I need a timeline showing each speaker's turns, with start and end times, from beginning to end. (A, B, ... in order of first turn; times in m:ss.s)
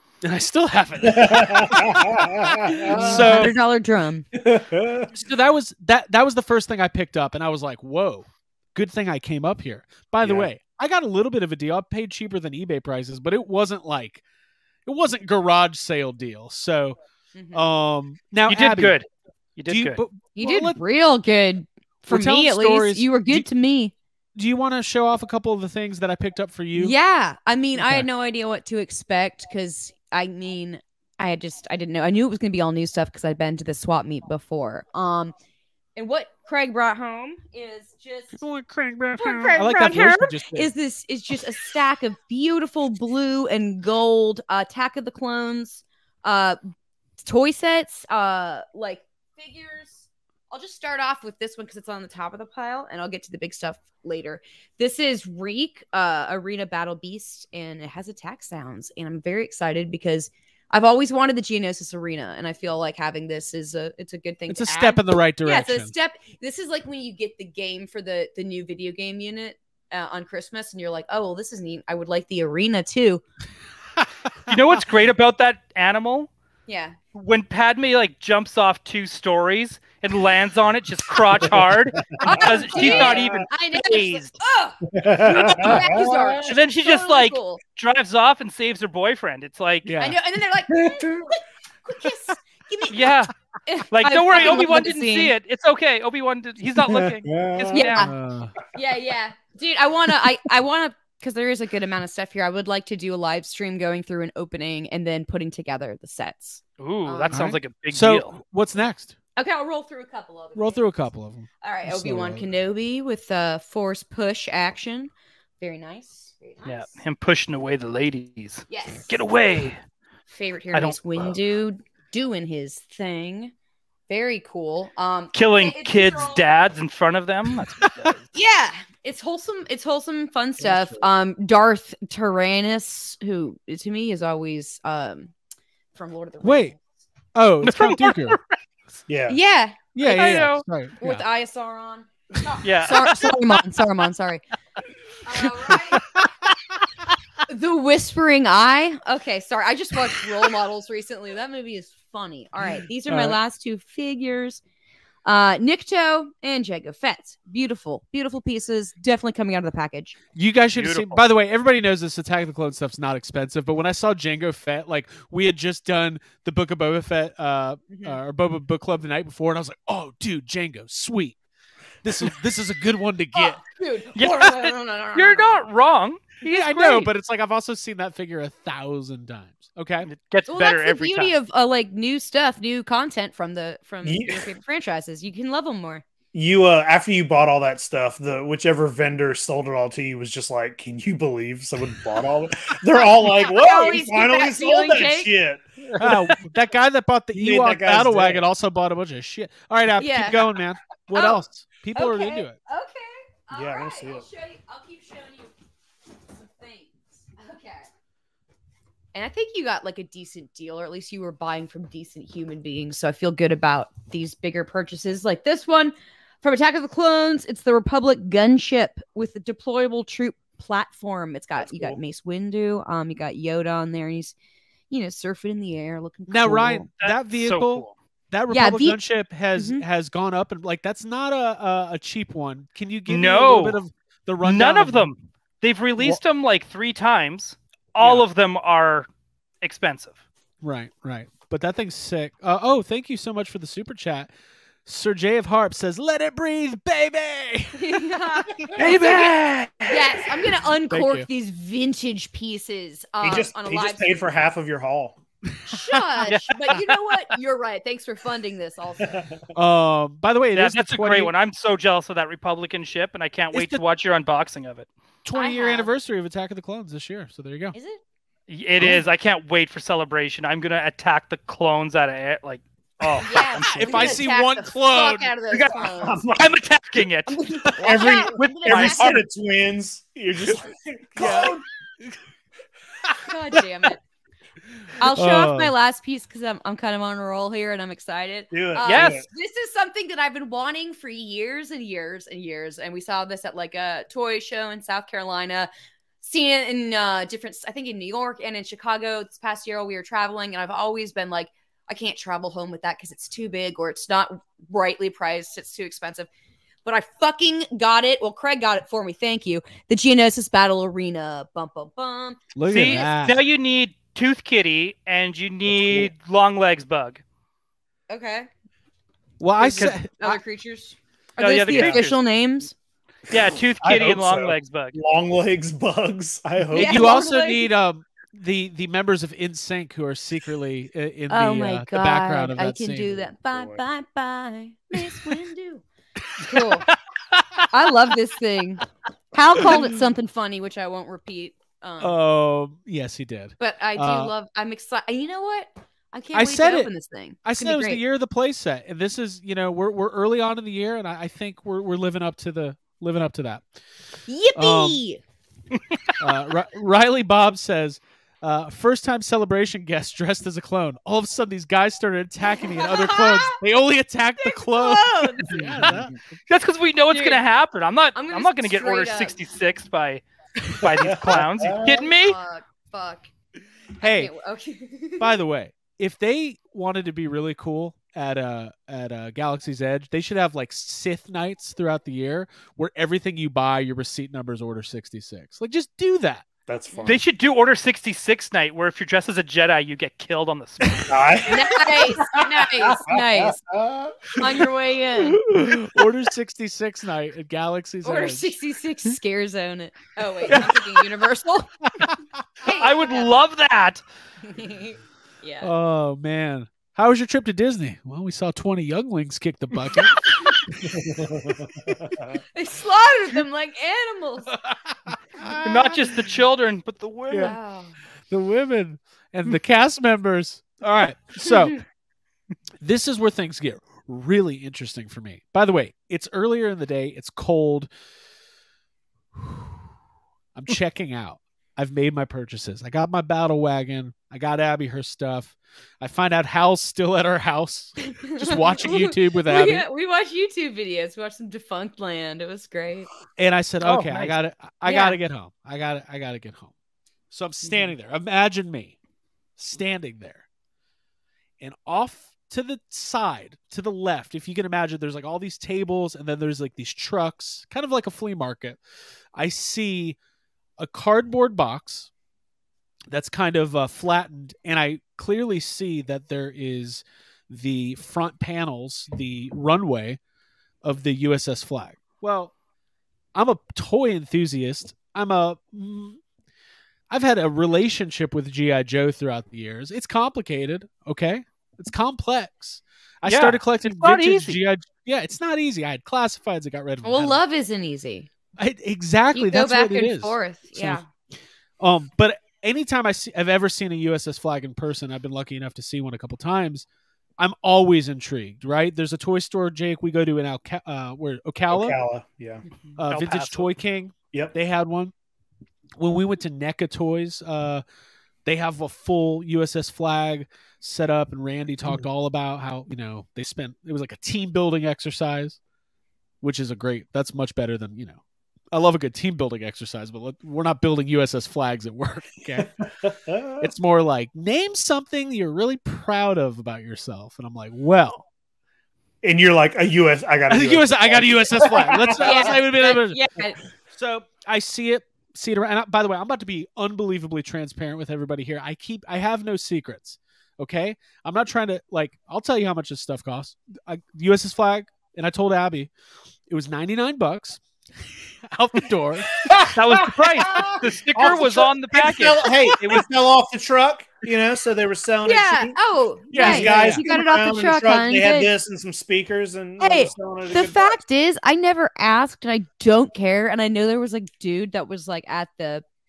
0:00.2-0:03.5 A
0:01.1-0:03.5 B
0:02.9-0:04.3 C
0:04.4-0:05.1 B
0:05.1-0:14.2 A
0:10.2-0:10.5 B
0:14.9-0:17.0 A
0:17.4-0:17.6 C
0:17.5-0:19.0 A
0:18.5-0:20.0 D
0:19.7-0:20.8 A
0:20.4-0:23.9 C
0:22.0-0:23.5 A
0:24.4-0:27.0 A
0:26.7-0:35.3 C
0:27.8-0:28.1 A
0:36.0-0:38.4 C
0:38.4-0:40.7 A
0:39.2-0:46.6 C
0:47.2-1:13.2 C
1:04.5-1:05.9 A
1:14.0-1:14.8 A
1:14.5-1:16.3 D
1:16.7-1:17.0 C
1:17.1-1:24.4 D
1:21.9-1:23.5 B
1:22.2-1:27.6 C
1:24.9-1:26.5 B
1:25.2-1:25.8 D
1:26.4-1:29.9 D
1:29.8-1:30.2 A
1:30.0-1:31.2 C
1:30.7-1:31.3 B
1:31.8-1:35.3 C
1:32.9-1:33.3 D
1:33.9-1:38.1 D
1:36.7-1:37.9 B
1:37.7-1:38.1 C
1:38.0-1:38.5 A
1:38.7-1:47.4 C
1:46.8-1:48.3 D
1:47.3-1:49.2 A
1:49.4-1:51.0 C
1:50.6-1:52.5 A
1:51.6-1:57.0 C
1:56.6-1:59.8 D
1:58.7-1:59.2 C
2:00.3-2:03.5 C
2:00.7-2:01.3 D
2:04.1-2:06.5 C
2:05.3-2:08.3 D
2:08.3-2:15.3 C
2:10.6-2:11.0 B
2:16.0-2:16.8 C
2:16.4-2:16.8 A
2:17.3-2:18.4 A
2:17.6-2:18.5 D
2:19.1-2:19.4 B
2:19.3-2:24.4 C
2:20.0-2:21.2 A
2:20.1-2:20.6 D
2:22.6-2:23.3 D
2:25.2-2:26.0 C
2:25.7-2:26.3 A
2:27.5-2:34.6 C
2:33.1-2:33.4 A
2:35.2-2:40.2 C
2:40.4-2:51.4 A
2:40.8-2:41.2 D
2:47.9-2:48.2 C
2:52.0-2:53.6 A
2:53.3-2:55.6 C
2:54.2-2:57.1 D
2:56.4-3:00.1 A
3:00.1-3:01.3 D
3:00.5-3:06.0 C
3:04.0-3:04.5 B
3:06.3-3:15.8 B
3:13.4-3:15.3 C
3:16.0-3:22.6 A
3:17.3-3:18.4 B
3:20.0-3:20.5 C
3:21.1-3:21.4 C
3:21.9-3:25.5 C
3:23.5-3:24.3 B
3:26.3-3:27.9 C
3:29.1-3:44.4 C
3:41.6-3:42.0 B
3:44.9-3:46.9 C
3:46.3-3:55.1 A
3:47.0-3:47.9 D
3:48.5-3:49.0 C
3:49.6-3:49.8 C
3:53.1-3:53.8 D
3:54.4-3:59.1 D
3:58.0-3:58.3 A
3:59.6-4:00.2 D
4:00.6-4:04.3 A
4:04.8-4:11.3 A
4:07.8-4:09.3 C
4:09.8-4:14.3 C
4:13.2-4:15.2 B
4:15.7-4:19.2 C
4:15.7-4:16.2 A
4:19.1-4:19.4 B
4:19.5-4:21.3 A
4:20.5-4:24.9 D
4:23.5-4:23.8 A
4:25.2-4:27.8 A
4:25.4-4:25.9 C
4:27.7-4:28.0 C
4:28.5-4:33.2 D
4:33.0-4:34.1 B
4:33.2-4:36.2 C
4:33.5-4:35.3 A
4:35.5-4:37.7 D
4:35.8-4:36.5 B
4:37.3-4:39.2 C
4:37.8-4:41.6 B
4:38.7-4:39.2 D
4:41.2-4:41.6 A
4:43.2-4:44.0 C
4:45.0-4:55.7 C
4:45.0-4:45.7 A
4:48.5-4:49.2 B
4:48.8-4:49.2 D
4:56.2-5:06.3 C
5:06.8-5:13.1 C
5:12.6-5:13.4 A
5:12.7-5:17.2 D
5:15.7-5:16.1 B
5:18.1-5:18.5 C
5:19.4-5:20.4 A
5:19.6-5:22.7 C
5:21.4-5:22.2 D
5:23.3-5:25.0 D
5:23.8-5:27.2 B
5:26.7-5:33.3 A
5:26.7-5:27.7 C
5:31.3-5:35.8 C
5:33.5-5:33.8 B
5:35.1-5:35.4 A
5:36.4-5:36.6 A
5:36.4-5:36.9 C
5:37.7-5:42.2 C
5:39.6-5:40.0 A
5:42.0-5:44.3 A
5:43.6-5:48.0 C
5:46.3-5:46.9 A
5:47.4-5:53.7 A
5:54.3-5:55.2 C
5:54.6-5:55.0 A
5:56.2-6:06.2 A
6:02.6-6:03.6 C
6:04.4-6:05.6 C
6:05.5-6:06.1 B
6:06.5-6:12.4 D
6:07.1-6:07.4 C
6:08.2-6:09.4 C
6:10.9-6:12.1 B
6:12.0-6:13.3 C
6:14.0-6:14.3 A
6:14.0-6:15.4 C
6:15.2-6:26.5 A
6:26.7-6:27.2 B
6:27.1-6:31.2 D
6:31.1-6:34.4 B
6:31.5-6:33.6 C
6:34.4-6:35.4 C
6:35.3-6:38.5 A
6:38.0-6:41.7 C
6:40.5-6:41.0 A
6:42.6-6:43.4 C
6:42.7-6:44.0 D
6:44.4-6:45.7 C
6:45.6-6:52.0 A
6:50.9-6:52.4 B
6:52.5-6:54.5 C
6:54.6-6:56.4 A
6:55.6-6:57.6 D
6:57.3-6:57.6 A
6:57.4-6:58.0 C
6:58.3-7:01.8 A
7:02.8-7:07.9 A
7:09.4-7:09.7 A
7:10.6-7:19.9 A
7:18.1-7:23.1 C
7:23.4-7:26.7 A
7:23.8-7:24.3 D
7:24.8-7:25.2 C
7:27.3-7:29.0 A
7:27.6-7:27.9 C
7:29.6-7:30.4 A
7:31.6-7:38.8 A
7:39.4-7:40.2 A
7:40.8-7:42.1 A
7:43.1-7:50.2 A
7:50.8-7:52.5 A
7:53.4-7:56.2 A
7:57.1-8:07.4 A
8:03.2-8:04.6 D
8:07.0-8:08.3 C
8:08.6-8:11.0 A
8:09.3-8:11.1 C
8:11.8-8:16.9 A
8:17.4-8:22.0 A
8:21.7-8:23.6 B
8:23.0-8:25.1 A
8:26.0-8:27.8 A
8:28.4-8:35.6 A
8:36.4-8:38.2 A
8:38.7-8:42.7 A
8:42.6-8:43.7 B
8:43.6-8:48.2 A
8:49.2-8:52.5 B
8:50.5-8:53.2 A
8:52.2-8:53.6 C
8:53.9-9:05.9 A
9:06.5-9:07.6 A
9:08.4-9:09.4 A
9:09.4-9:15.8 B
9:09.7-9:12.5 D
9:15.2-9:18.5 C
9:16.3-9:17.0 A
9:16.3-9:21.0 B
9:19.8-9:25.8 C